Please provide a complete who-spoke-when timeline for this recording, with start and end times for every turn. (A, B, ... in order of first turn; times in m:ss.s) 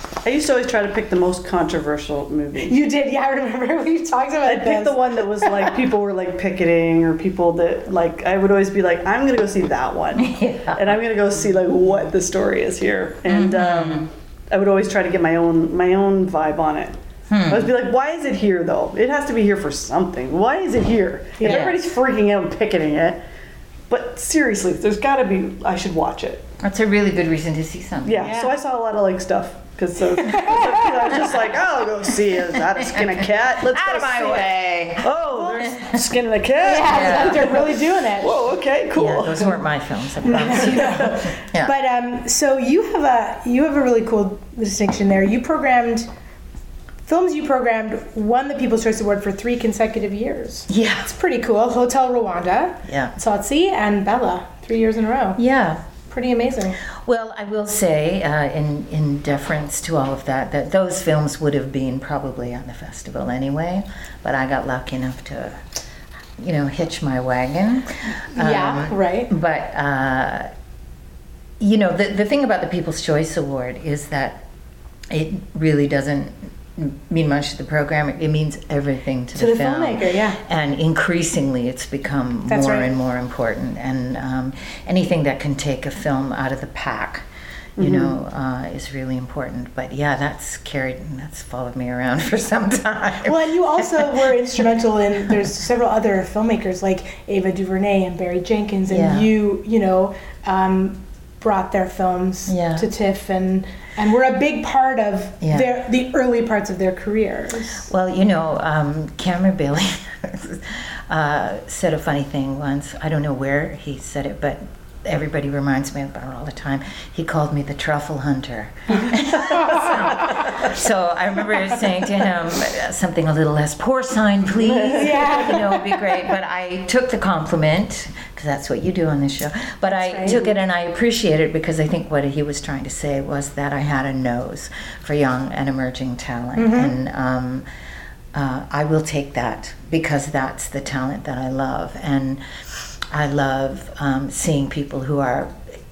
0:00.2-0:02.8 A
0:02.6-0:05.2 B
0:04.5-0:17.0 A
0:10.2-0:11.0 C
0:13.3-0:14.1 C
0:17.3-0:17.7 C
0:17.5-0:23.2 A
0:21.4-0:21.7 B
0:21.4-0:21.8 C
0:23.9-0:26.5 A
0:26.6-0:28.4 C
0:28.1-0:39.6 A
0:28.2-0:28.5 B
0:30.1-0:31.3 B
0:32.6-0:36.1 C
0:36.6-0:38.4 B
0:36.8-0:37.6 C
0:39.0-0:41.7 C
0:40.2-0:46.1 B
0:47.1-0:55.4 B
0:50.7-0:51.1 C
0:52.9-0:53.1 C
0:55.4-0:55.8 C
0:56.1-0:56.8 B
0:57.0-1:05.6 C
1:06.4-1:10.5 C
1:08.4-1:09.3 B
1:11.6-1:14.4 C
1:15.1-1:27.3 C
1:19.4-1:20.4 B
1:22.5-1:22.9 B
1:27.8-1:28.1 A
1:27.8-1:34.4 C
1:33.2-1:47.9 B
1:38.9-1:39.3 C
1:42.5-1:42.9 C
1:45.4-1:45.7 C
1:47.8-2:17.6 C
1:59.3-2:00.6 B
2:04.6-2:05.6 A
2:04.9-2:06.1 B
2:09.9-2:10.5 B
2:16.6-2:17.0 B
2:18.3-2:25.5 C